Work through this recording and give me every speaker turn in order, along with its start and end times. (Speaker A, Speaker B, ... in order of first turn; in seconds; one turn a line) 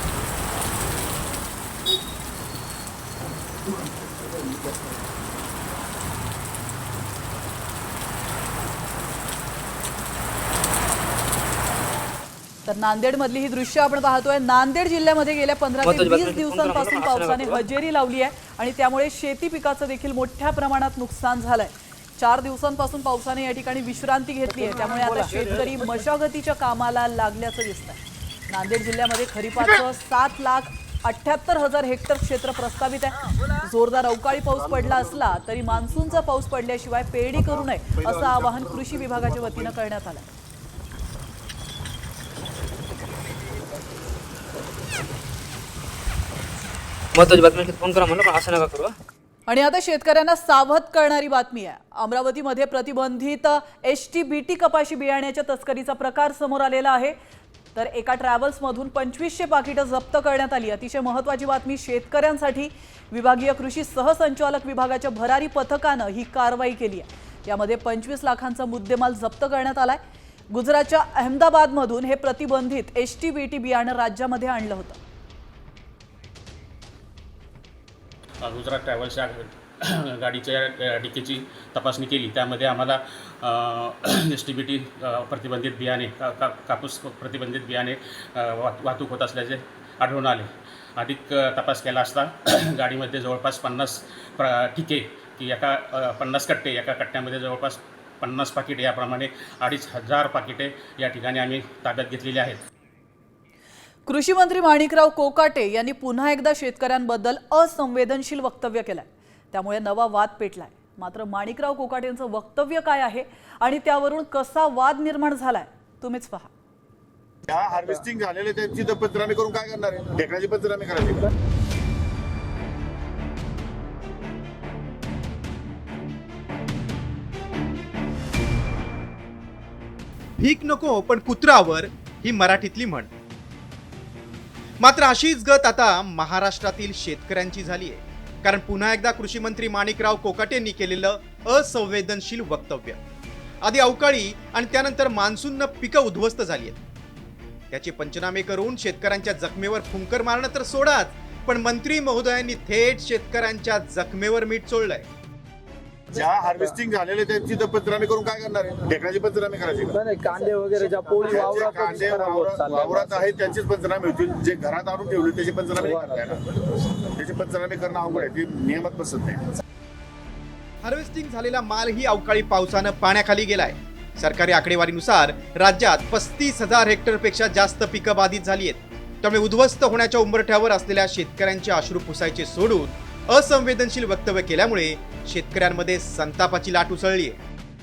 Speaker A: 12.7-40.3
Speaker B: 15.8-17.6
Speaker B: 47.2-48.9
Speaker A: 49.5-57.2
Speaker A: 57.7-75.0
Speaker C: 78.4-102.6
Speaker A: 104.1-116.5
Speaker D: 117.5-121.3
Speaker E: 130.4-133.1
Speaker E: 134.8-143.0
Speaker E: 143.6-146.8
Speaker E: 147.7-155.1
Speaker D: 156.1-160.0
Speaker F: 159.9-163.2
Speaker D: 161.2-166.4
Speaker F: 165.8-166.3
Speaker D: 167.0-169.4
Speaker E: 170.8-187.4